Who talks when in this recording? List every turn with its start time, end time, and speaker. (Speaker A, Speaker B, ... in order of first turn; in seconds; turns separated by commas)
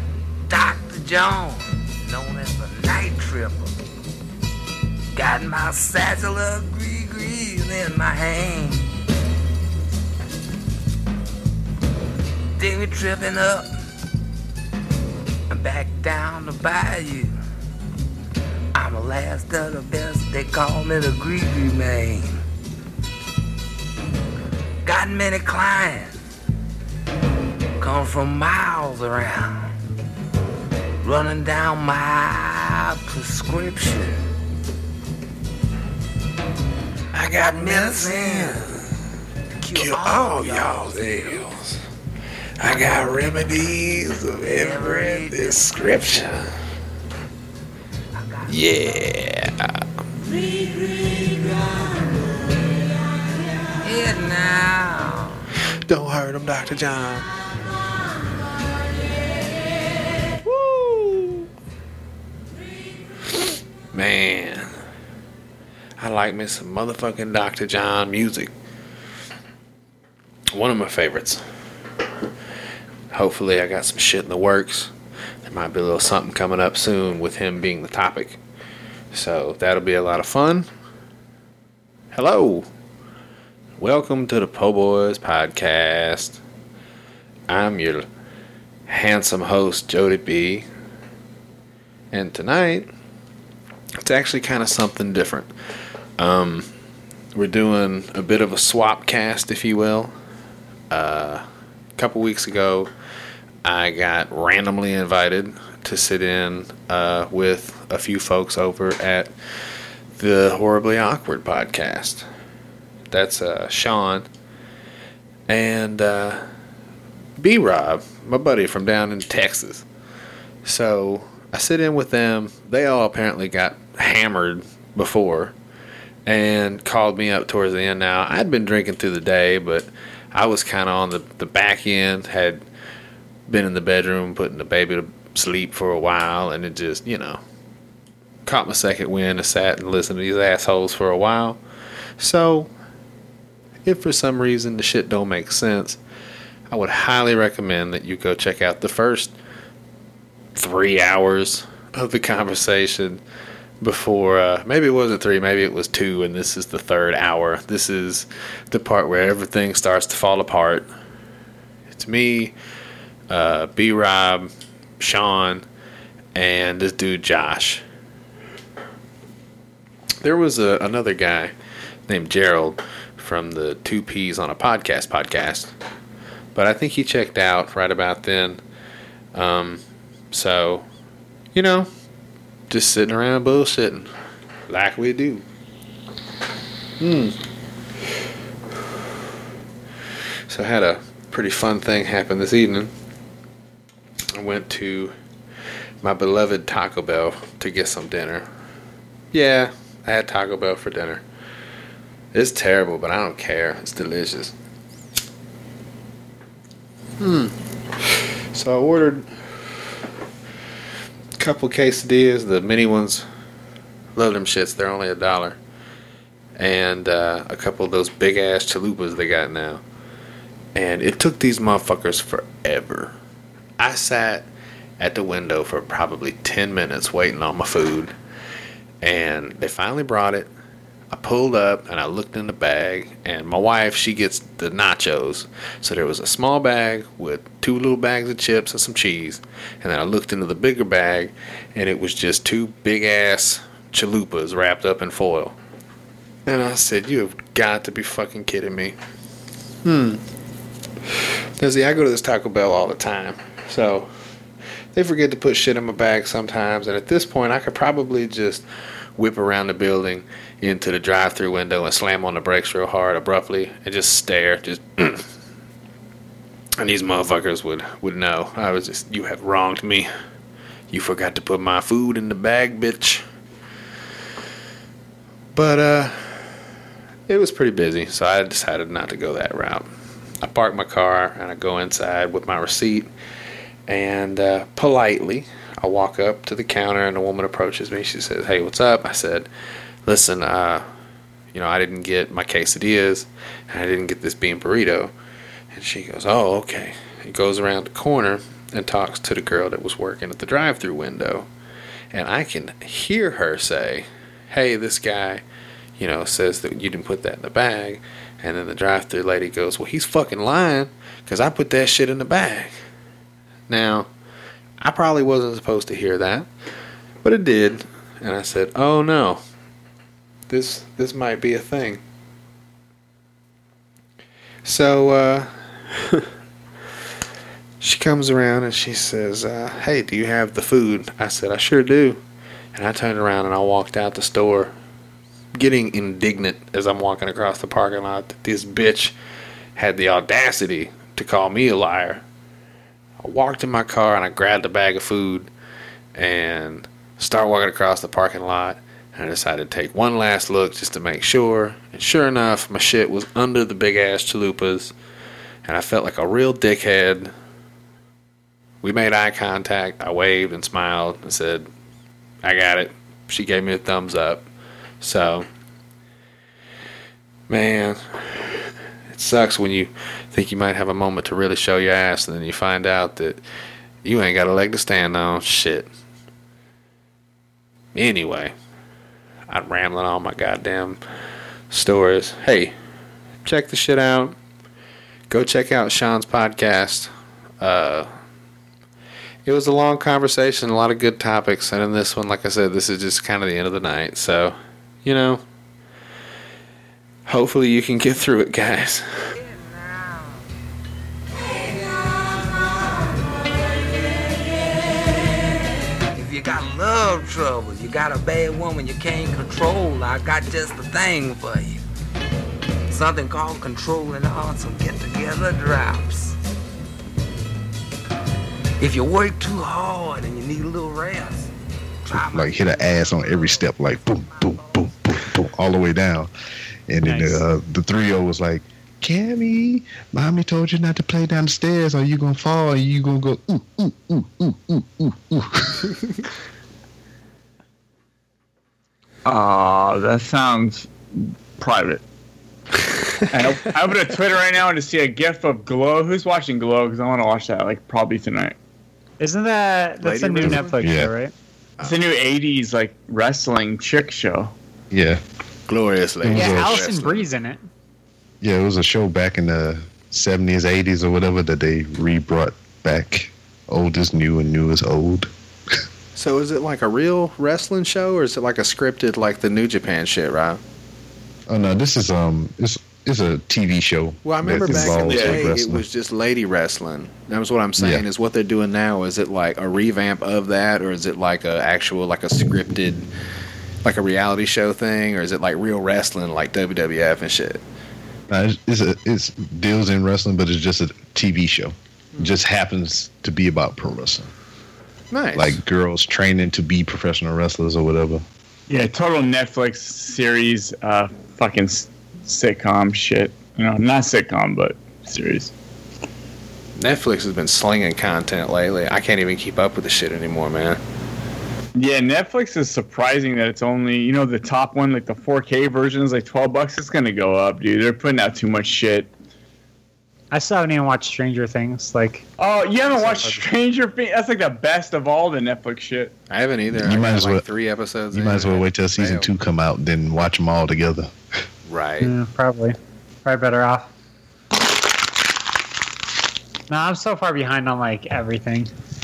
Speaker A: 0.5-3.7, Speaker A: 5.1-8.9, Speaker A: 12.6-13.7, Speaker A: 15.5-17.3, Speaker A: 18.7-22.4, Speaker A: 24.8-26.2, Speaker A: 27.8-29.7, Speaker A: 31.0-34.2, Speaker B: 37.1-38.8, Speaker A: 37.3-38.7, Speaker A: 39.6-41.5, Speaker B: 39.7-41.8, Speaker B: 42.6-46.5, Speaker A: 44.4-45.6, Speaker A: 48.2-48.6, Speaker B: 48.5-49.7, Speaker A: 50.5-51.3, Speaker A: 53.8-55.5, Speaker B: 55.9-57.3, Speaker B: 60.4-61.5, Speaker B: 63.9-64.7, Speaker B: 66.0-68.5, Speaker B: 70.5-71.5, Speaker B: 73.1-74.9, Speaker B: 75.4-78.4, Speaker B: 79.1-80.7, Speaker B: 82.1-82.7, Speaker B: 83.8-86.4, Speaker B: 87.5-88.0, Speaker B: 88.9-90.6, Speaker B: 92.1-92.9, Speaker B: 94.0-95.5, Speaker B: 96.2-96.7, Speaker B: 97.3-100.1, Speaker B: 100.9-101.4, Speaker B: 102.0-102.9, Speaker B: 103.6-109.3, Speaker B: 110.2-112.2, Speaker B: 113.1-114.2, Speaker B: 115.5-116.4, Speaker B: 117.4-119.8, Speaker B: 120.6-125.5, Speaker B: 126.2-132.6, Speaker B: 133.5-137.4, Speaker B: 138.4-141.6, Speaker B: 142.2-142.7, Speaker B: 143.8-146.0, Speaker B: 146.7-149.3, Speaker B: 150.6-153.2, Speaker B: 153.8-160.8, Speaker B: 161.9-162.5, Speaker B: 163.3-165.6, Speaker B: 166.3-167.8, Speaker B: 170.2-171.5, Speaker B: 172.1-175.7, Speaker B: 176.5-178.6, Speaker B: 179.3-180.8, Speaker B: 181.5-181.9, Speaker B: 182.7-184.1, Speaker B: 184.7-185.4, Speaker B: 187.0-187.4, Speaker B: 190.5-192.9, Speaker B: 194.3-195.1, Speaker B: 196.0-198.4, Speaker B: 199.3-201.2, Speaker B: 202.3-204.5, Speaker B: 207.2-207.6, Speaker B: 208.5-209.3, Speaker B: 211.4-213.2, Speaker B: 214.2-215.6, Speaker B: 216.6-219.8, Speaker B: 220.7-223.2, Speaker B: 223.8-224.5, Speaker B: 225.0-228.1, Speaker B: 229.0-230.5, Speaker B: 231.1-245.6, Speaker B: 246.4-248.9, Speaker B: 249.8-250.2, Speaker B: 251.6-254.1, Speaker B: 254.9-258.6, Speaker B: 259.2-265.2, Speaker B: 266.8-270.1, Speaker B: 270.9-273.2, Speaker B: 275.5-276.5, Speaker B: 277.3-279.9, Speaker B: 280.4-283.1, Speaker B: 283.9-289.5, Speaker B: 290.1-290.9, Speaker B: 291.5-295.1, Speaker B: 295.7-301.5, Speaker B: 302.1-305.4, Speaker B: 306.0-312.8, Speaker B: 313.7-314.1, Speaker B: 314.8-316.5, Speaker B: 317.2-319.4, Speaker B: 320.5-322.0, Speaker B: 324.6-326.2, Speaker B: 327.8-332.2, Speaker B: 332.7-334.7, Speaker B: 335.5-339.1, Speaker B: 339.8-342.2, Speaker B: 343.2-345.5, Speaker B: 346.1-354.9, Speaker B: 355.6-357.3, Speaker B: 358.8-361.7, Speaker B: 362.4-364.4, Speaker B: 365.0-365.5, Speaker B: 367.5-368.6, Speaker B: 369.1-373.4, Speaker B: 374.0-375.9, Speaker B: 377.9-378.5, Speaker B: 379.5-381.0, Speaker B: 381.7-382.7, Speaker B: 383.4-384.4, Speaker B: 385.3-388.1, Speaker B: 389.4-395.4, Speaker B: 397.2-399.3, Speaker A: 399.4-400.4, Speaker A: 401.8-402.1, Speaker A: 406.1-411.8, Speaker A: 412.9-416.3, Speaker A: 418.8-421.5, Speaker A: 422.1-424.6, Speaker C: 422.2-426.3, Speaker C: 426.9-436.0, Speaker D: 427.0-427.4, Speaker E: 439.2-442.0, Speaker E: 443.3-448.5, Speaker D: 449.2-451.3, Speaker B: 450.0-450.8, Speaker C: 450.4-451.1, Speaker E: 451.8-454.5, Speaker C: 454.9-455.2, Speaker B: 455.7-457.3, Speaker C: 456.2-456.8, Speaker D: 456.3-457.6, Speaker C: 458.4-465.3, Speaker B: 466.1-470.6, Speaker C: 471.5-475.8, Speaker B: 474.2-483.1, Speaker E: 474.7-475.4, Speaker C: 477.8-478.1, Speaker B: 483.8-487.6, Speaker C: 488.3-494.3, Speaker B: 495.1-495.6, Speaker C: 495.3-498.2, Speaker E: 498.7-505.5, Speaker B: 506.8-510.8, Speaker E: 511.8-519.1, Speaker D: 520.3-522.2, Speaker E: 522.4-526.1, Speaker B: 522.9-523.4, Speaker B: 526.3-529.3, Speaker C: 526.7-527.4, Speaker C: 528.1-531.1, Speaker B: 531.7-532.1, Speaker D: 532.0-533.9, Speaker D: 536.7-538.7